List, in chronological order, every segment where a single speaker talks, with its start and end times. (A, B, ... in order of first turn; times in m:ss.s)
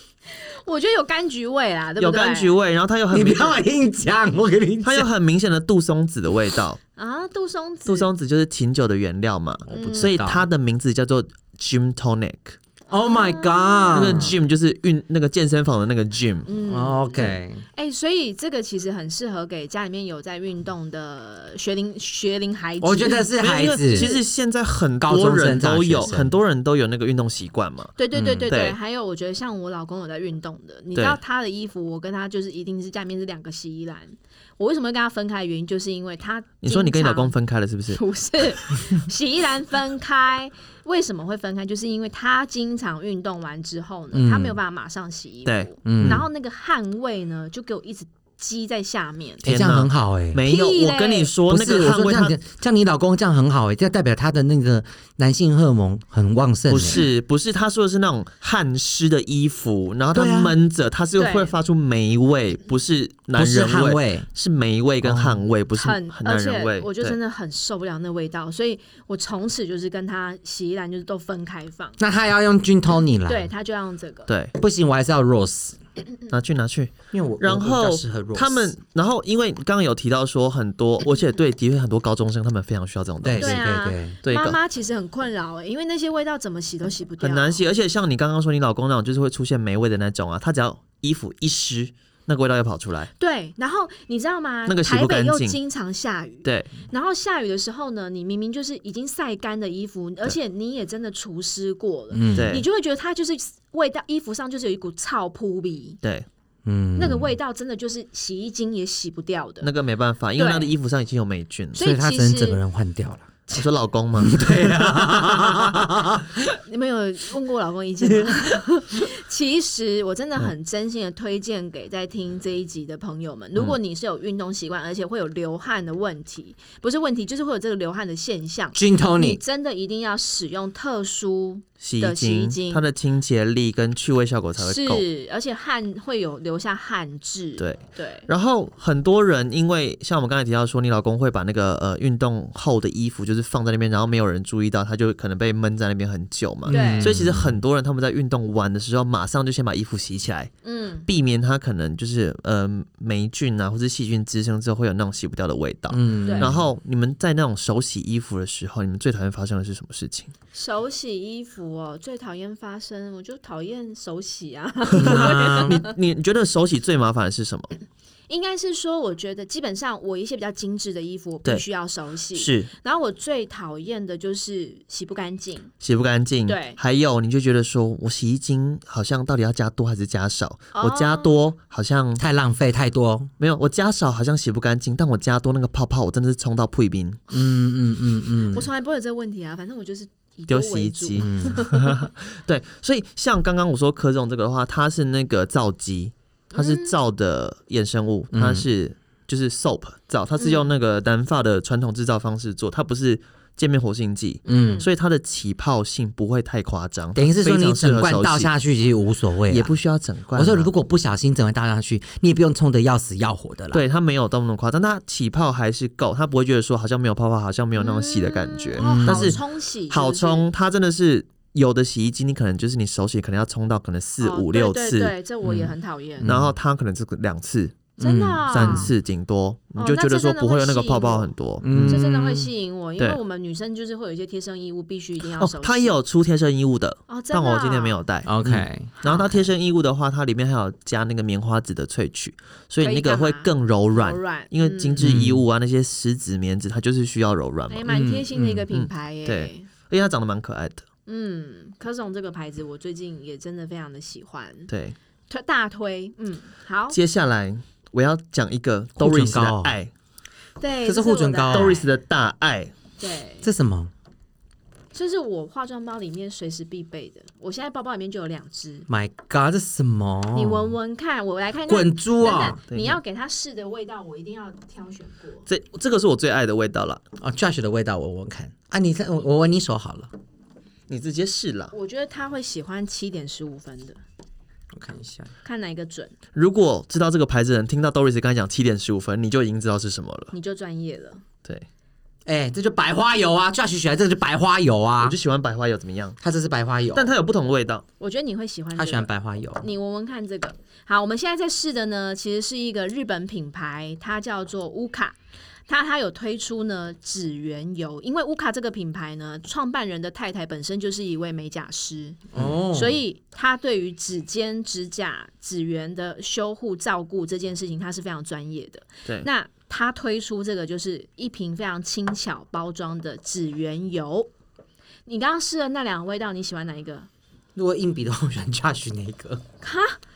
0:00.3-0:02.6 A
0:02.0-0:03.6 B
0:03.1-0:05.1 C
0:04.8-0:06.8 B
0:07.0-0:08.1 A
0:07.8-0:12.6 B
0:09.7-0:10.5 C
0:09.7-0:10.1 A
0:12.9-0:14.3 A
0:12.9-0:14.4 C
0:13.9-0:16.5 B
0:16.4-0:23.3 A
0:16.7-0:17.6 C
0:22.8-0:24.2 C
0:23.4-0:28.0 B
0:23.9-0:24.2 A
0:25.0-0:26.3 C
0:28.0-0:37.3 A
0:28.1-0:28.5 C
0:28.5-0:28.8 B
0:36.6-0:38.0 B
0:37.9-0:49.4 A
0:44.1-0:44.6 C
0:45.4-0:46.2 B
0:45.8-0:46.2 C
0:49.4-0:50.4 C
0:49.4-0:52.4 B
0:50.4-0:51.3 A
0:51.5-0:57.1 C
0:56.7-1:07.2 B
1:00.1-1:00.5 C
1:01.2-1:01.6 A
1:03.4-1:04.3 C
1:05.0-1:05.4 C
1:05.8-1:12.0 A
1:12.0-1:13.5 C
1:13.2-1:14.3 A
1:14.3-1:14.5 B
1:14.6-1:15.8 C
1:16.3-1:23.6 B
1:17.1-1:18.7 C
1:23.2-1:24.2 C
1:23.4-1:27.6 A
1:24.2-1:24.6 B
1:27.2-1:33.1 B
1:33.2-1:46.0 A
1:34.7-1:35.6 B
1:36.4-1:36.7 B
1:42.1-1:42.6 C
1:42.3-1:42.6 B
1:46.6-1:47.3 C
1:47.0-1:49.7 A
1:49.6-1:51.8 B
1:50.4-1:50.7 A
1:51.7-1:52.6 A
1:51.8-1:53.3 C
1:53.5-1:55.7 B
1:54.2-1:56.4 C
1:56.6-2:12.8 A
2:08.7-2:09.4 C
2:11.8-2:15.0 B
2:14.6-2:18.3 A
2:17.6-2:30.5 B
2:26.7-2:27.6 C
2:26.7-2:27.2 A
2:30.6-2:31.1 A
2:31.1-2:40.3 B
2:35.9-2:36.7 C
2:36.2-2:36.6 A
2:40.5-2:45.9 A
2:44.9-2:47.7 B
2:45.0-2:45.8 C
2:48.3-2:55.7 A
2:52.3-2:52.7 B
2:55.8-3:02.2 B
2:56.4-2:56.8 A
3:00.7-3:01.3 A
3:02.2-3:03.3 C
3:03.4-3:07.2 B
3:07.3-3:08.7 C
3:08.5-3:12.0 A
3:10.5-3:28.5 B
3:11.2-3:11.6 C
3:16.5-3:16.9 A
3:18.3-3:18.6 C
3:20.4-3:20.7 A
3:24.4-3:24.9 A
3:24.5-3:24.8 C
3:27.1-3:29.7 C
3:29.5-3:30.7 B
3:30.3-3:33.8 C
3:33.7-3:45.1 B
3:37.8-3:40.5 A
3:38.8-3:39.4 C
3:44.2-3:46.3 A
3:45.4-3:46.5 C
3:46.2-3:47.9 B
3:48.0-3:48.9 A
3:48.0-3:48.9 C
3:48.5-3:52.0 B
3:49.8-3:56.0 A
3:51.6-3:52.5 C
3:55.4-4:07.9 B
3:57.1-3:58.0 A
3:58.2-3:58.9 C
3:59.0-3:59.5 A
4:02.8-4:05.1 A
4:05.0-4:05.4 C
4:07.7-4:09.7 A
4:07.9-4:08.6 C
4:08.7-4:10.8 B
4:11.1-4:14.7 A
4:14.7-4:15.0 B
4:15.3-4:17.0 A
4:16.9-4:19.9 B
4:19.0-4:19.8 C
4:20.6-4:21.9 A
4:20.8-4:21.8 C
4:21.5-4:22.7 B
4:23.0-4:23.5 A
4:23.4-4:23.9 C
4:24.9-4:28.9 A
4:28.9-4:30.8 C
4:30.3-4:35.5 A
4:31.7-4:32.6 C
4:32.7-4:33.0 B
4:35.5-4:37.0 B
4:37.2-4:40.1 C
4:40.9-4:41.7 B
4:41.7-4:44.0 A
4:44.7-4:45.3 C
4:45.4-4:46.1 A
4:46.3-4:50.3 B
4:50.3-4:51.2 A
4:52.2-4:55.2 C
4:55.0-4:56.2 B
4:56.2-4:57.1 C
4:56.9-4:57.8 B
4:58.0-5:05.2 A
4:58.8-4:59.6 C
5:05.7-5:24.3 A
5:12.3-5:13.0 C
5:25.0-5:27.1 A
5:27.6-5:29.4 C
5:29.6-5:30.0 A